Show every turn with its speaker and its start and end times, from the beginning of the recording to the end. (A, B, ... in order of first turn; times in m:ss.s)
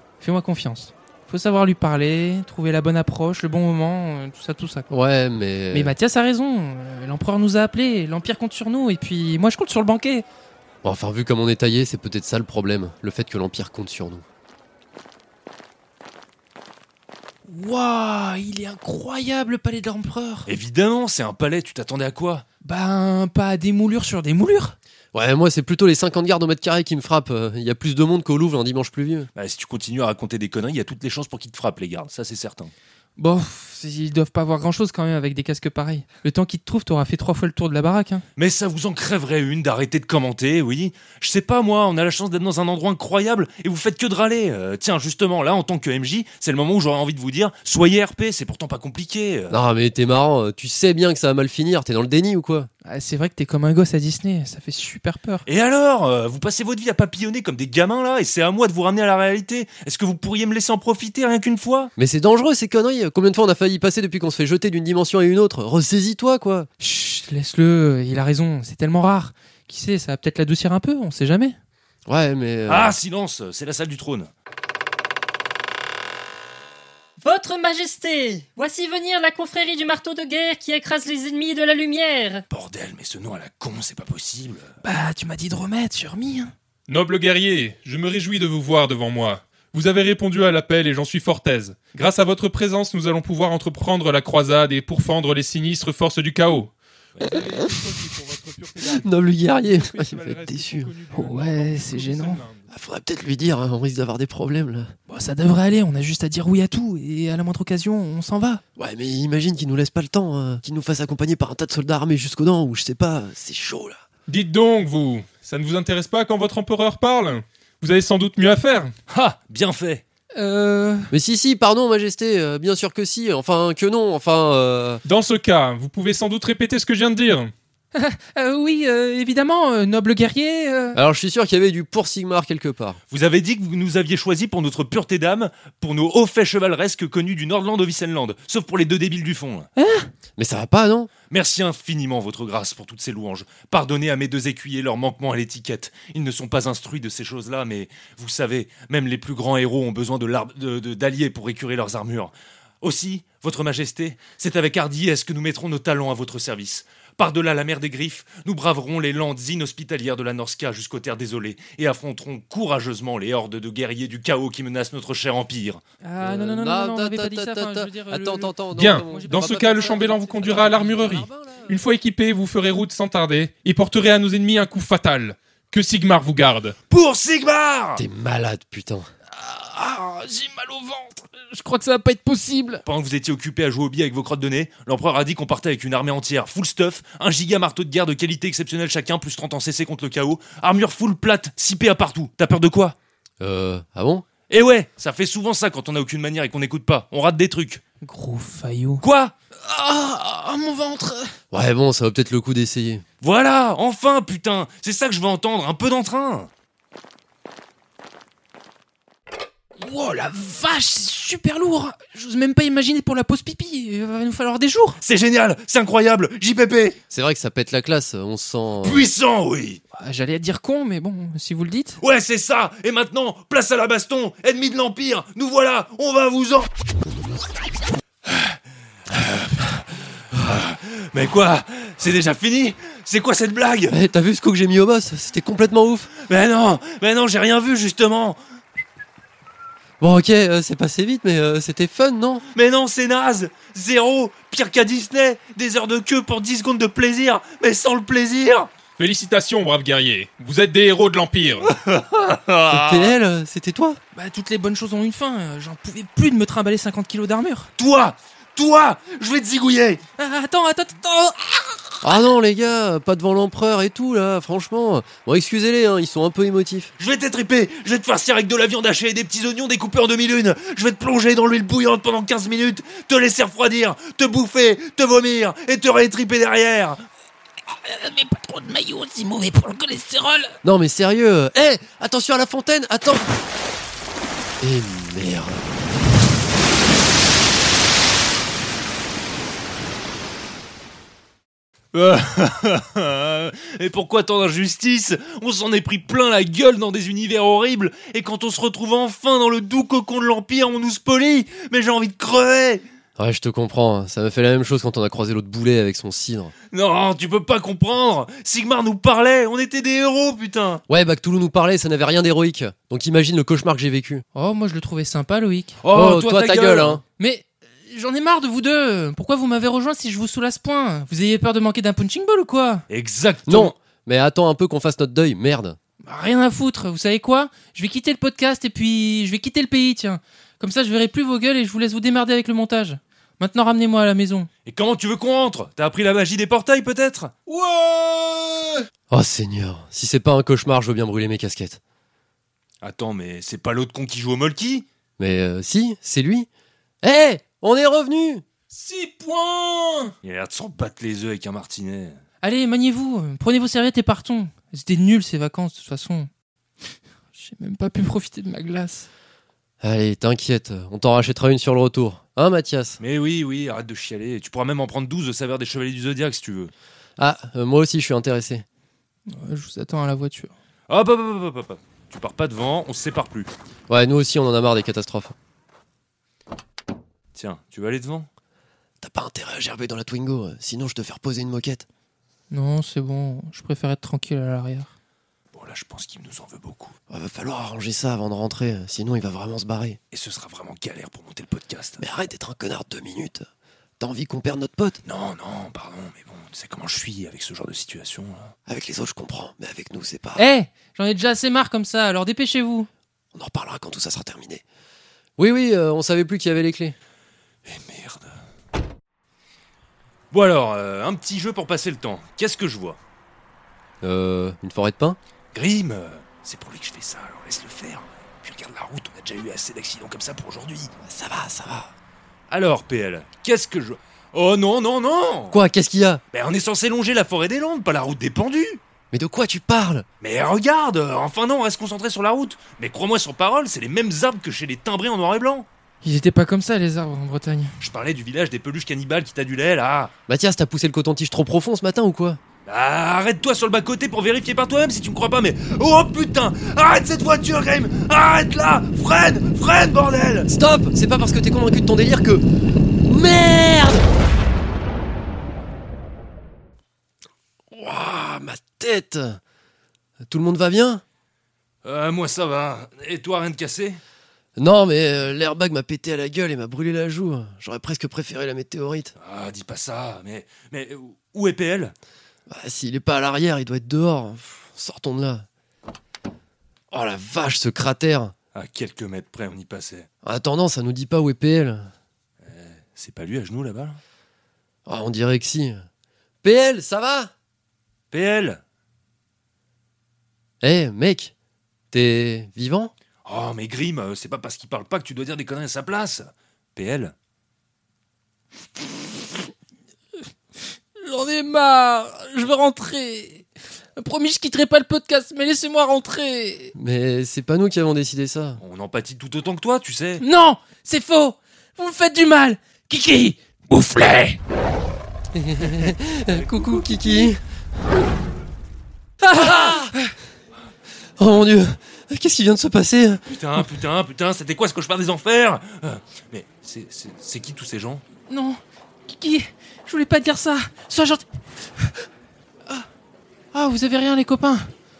0:00.2-0:04.9 A
0:04.9-0:05.9 B
0:05.7-0:10.2 A
0:10.8-0:14.2 B
0:17.5-0:20.5 A
0:20.5-0:22.4 C
0:22.6-0:24.8 A
0:25.1-0:29.3 B
0:29.3-0:32.7 C
0:33.2-0:38.2 A
0:38.4-0:49.6 C
0:49.5-0:52.7 B
0:52.8-0:55.4 A
0:55.4-1:01.9 C
1:02.0-1:06.7 B
1:06.8-1:11.6 A
1:12.1-1:13.0 B
1:12.7-1:14.3 C
1:17.2-1:22.4 D
1:22.5-1:24.7 C
1:24.8-1:26.5 A
1:26.9-1:39.1 E
1:38.8-1:40.9 B
1:39.7-1:42.7 E
1:41.1-1:42.4 A
1:42.7-1:44.9 B
1:45.1-1:48.6 A
1:48.8-1:54.0 B
1:54.3-1:58.9 E
1:59.1-2:00.0 C
2:00.3-2:01.1 A
2:01.1-2:05.0 B
2:05.0-2:07.5 E
2:07.9-2:11.0 A
2:10.9-2:13.0 B
2:13.1-2:19.7 C
2:19.8-2:20.1 A
2:20.4-2:21.1 B
2:21.3-2:45.8 C
2:46.0-2:51.0 A
2:46.2-2:51.7 B
2:48.7-2:56.8 E
2:56.9-2:58.0 C
2:58.0-2:59.1 B
2:59.3-3:02.8 A
3:02.8-3:13.0 C
3:13.4-3:14.2 B
3:14.5-3:17.8 C
3:18.0-3:19.0 A
3:19.0-3:19.3 C
3:19.6-3:21.4 A
3:21.5-3:23.0 B
3:23.2-3:26.5 C
3:29.8-3:35.0 A
3:35.0-3:37.0 C
3:37.1-3:39.1 B
3:38.8-3:39.8 C
3:39.9-3:42.0 A
3:42.0-3:46.7 C
3:48.3-3:48.6 C
3:49.1-3:54.0 C
3:53.9-3:56.1 B
3:56.2-3:58.4 C
4:00.0-4:02.4 B
4:02.5-4:08.7 C
4:09.0-4:11.7 E
4:11.6-4:13.1 C
4:12.7-4:14.0 B
4:14.1-4:17.7 A
4:17.8-4:20.0 C
4:20.2-4:22.0 A
4:22.0-4:26.9 B
4:27.0-4:37.0 C
4:37.7-4:40.6 A
4:40.6-4:43.3 B
4:44.6-4:45.7 B
4:51.9-5:02.8 C
5:03.2-5:06.5 B
5:06.7-5:10.8 C
5:10.9-5:14.2 B
5:14.3-5:15.8 A
5:15.8-5:17.0 C
5:15.9-5:17.0 B
5:17.2-5:22.8 A
5:22.9-5:23.7 C
5:23.5-5:25.8 B
5:26.0-5:34.5 A
5:34.6-5:37.6 C
5:39.1-5:41.8 B
5:42.8-5:44.8 C
5:45.2-5:46.5 B
5:47.0-5:48.4 B
5:48.8-5:49.8 E
5:49.0-5:49.3 A
5:50.2-5:52.2 C
5:52.4-5:56.3 A
5:57.3-5:59.1 A
5:59.8-6:03.0 B
6:03.0-6:06.7 C
6:07.2-6:08.6 B
6:09.3-6:10.5 A
6:10.9-6:13.5 C
6:13.9-6:15.3 B
6:17.3-6:18.3 C
6:19.0-6:21.8 B
6:22.5-6:24.9 A
6:25.5-6:26.9 C
6:27.1-6:30.0 B
6:30.1-6:32.0 C
6:32.0-6:33.5 B
6:34.0-6:35.0 B
6:35.0-6:38.5 C
6:38.7-6:40.4 B
6:40.4-6:42.9 A
6:43.3-6:44.6 B
6:45.4-6:47.0 B
6:47.6-6:48.4 C
6:50.3-6:53.0 C
6:54.0-6:55.2 B
6:55.5-7:00.9 C
7:01.0-7:01.9 B
7:02.5-7:05.6 C
7:05.5-7:06.2 B
7:06.3-7:08.8 C
7:09.1-7:10.0 B
7:10.2-7:15.7 C
7:16.0-7:17.8 A
7:17.8-7:20.1 C
7:20.3-7:22.4 B
7:22.6-7:30.5 C
7:30.5-7:32.4 B
7:33.0-7:34.1 B
7:37.7-7:39.4 B
7:40.3-7:41.0 B
7:41.8-7:44.0 C
7:44.6-7:49.1 B
7:49.2-7:51.9 C
7:52.5-7:55.4 B
7:56.9-7:58.3 B
7:58.5-8:00.1 C
8:00.2-8:01.9 B
8:02.4-8:04.0 C
8:04.9-8:05.8 B
8:06.4-8:07.3 B
8:08.1-8:08.6 C
8:10.6-8:11.3 B
8:11.9-8:12.9 B
8:13.2-8:17.1 C
8:21.0-8:26.7 A
8:26.7-8:28.6 B
8:28.6-8:30.2 C
8:30.2-8:34.4 A
8:35.3-8:37.4 B
8:36.3-8:37.3 C
8:39.2-8:39.9 B
8:39.3-8:40.0 A
8:41.2-8:43.2 B
8:43.3-8:48.0 C
8:48.3-8:51.2 A
8:53.5-8:54.7 A